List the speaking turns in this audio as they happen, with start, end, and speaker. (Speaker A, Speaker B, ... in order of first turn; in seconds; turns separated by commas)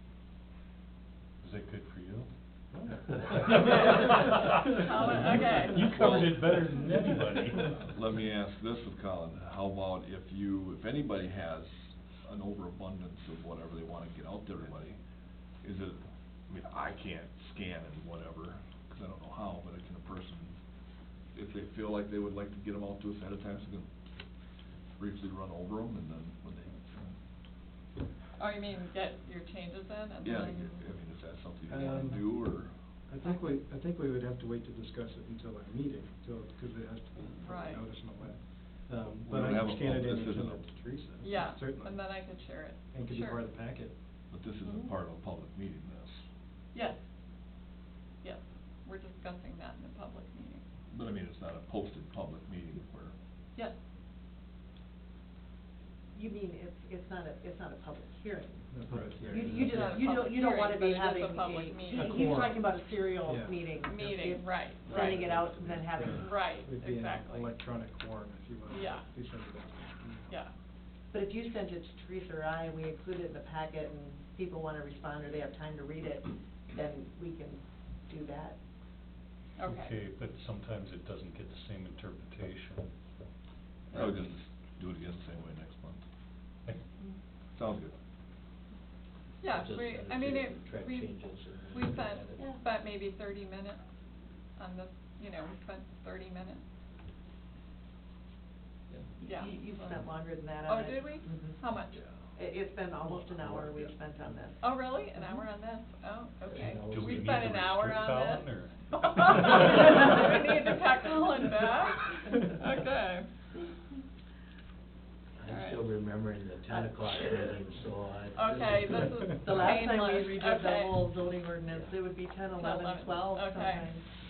Speaker A: 1.4-2.3, Speaker A: 2.8-8.1, Speaker B: 3.7-3.9, Speaker B: 4.7-5.9, Speaker C: 5.9-6.8, Speaker C: 7.9-15.0, Speaker C: 15.6-20.6, Speaker C: 21.3-23.9, Speaker C: 25.0-27.1, Speaker B: 28.4-30.9, Speaker C: 30.2-32.7, Speaker D: 31.7-32.5, Speaker D: 33.1-42.4, Speaker B: 33.2-33.5, Speaker B: 37.4-37.9, Speaker C: 39.2-40.7, Speaker B: 41.2-43.4, Speaker D: 42.9-44.1, Speaker C: 44.3-46.2, Speaker B: 46.7-47.0, Speaker B: 48.2-50.6, Speaker C: 50.9-53.1, Speaker E: 56.1-58.7, Speaker D: 58.7-60.1, Speaker E: 59.3-66.4, Speaker B: 59.6-62.3, Speaker D: 61.9-62.6, Speaker D: 63.2-63.6, Speaker B: 63.8-65.2, Speaker D: 64.8-70.3, Speaker B: 66.2-67.5, Speaker B: 68.7-69.0, Speaker E: 71.1-78.6, Speaker B: 79.6-79.9, Speaker A: 79.7-82.9, Speaker A: 83.9-84.4, Speaker C: 83.9-86.0, Speaker C: 87.5-87.9, Speaker B: 89.4-93.8, Speaker F: 89.4-92.5, Speaker B: 94.6-96.6, Speaker E: 99.2-101.6, Speaker B: 99.2-102.0, Speaker E: 102.3-104.7, Speaker F: 103.4-103.9, Speaker B: 104.6-113.4, Speaker F: 106.5-107.2, Speaker A: 106.6-109.6, Speaker F: 115.4-119.1, Speaker B: 115.5-115.8, Speaker E: 116.7-117.6, Speaker B: 118.3-121.0, Speaker E: 119.4-124.0, Speaker B: 122.5-123.9